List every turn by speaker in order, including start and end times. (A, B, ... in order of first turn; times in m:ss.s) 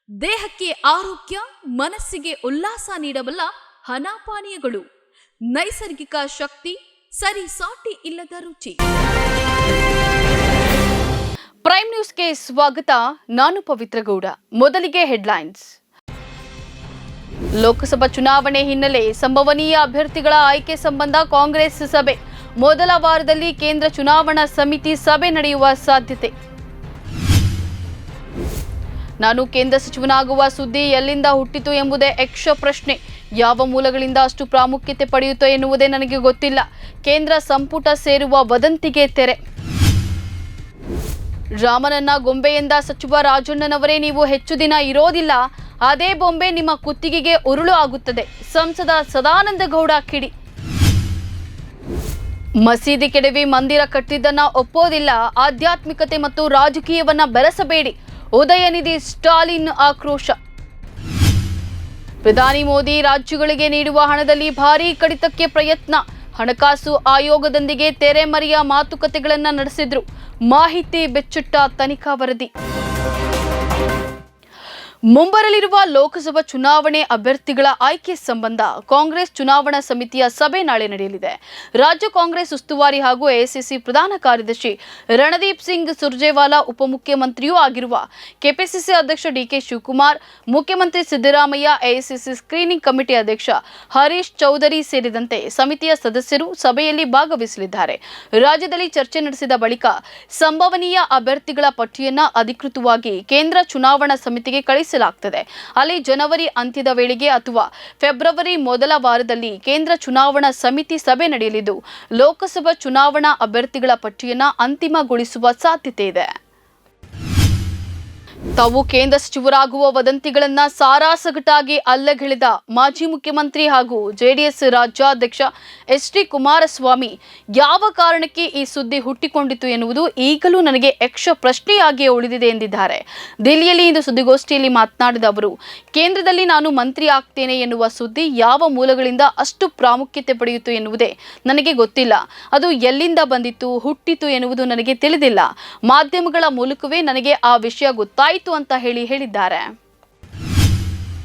0:00.2-0:04.9 A
0:05.5-0:08.8 A
0:11.6-0:15.7 A
0:17.6-0:26.3 A
0:29.2-0:39.4 A
0:41.6-0:50.3 A
0:52.6-1:00.4 A
1:02.2-1:12.5 A
1:15.1-1:56.3 A
1:58.6-2:29.7 A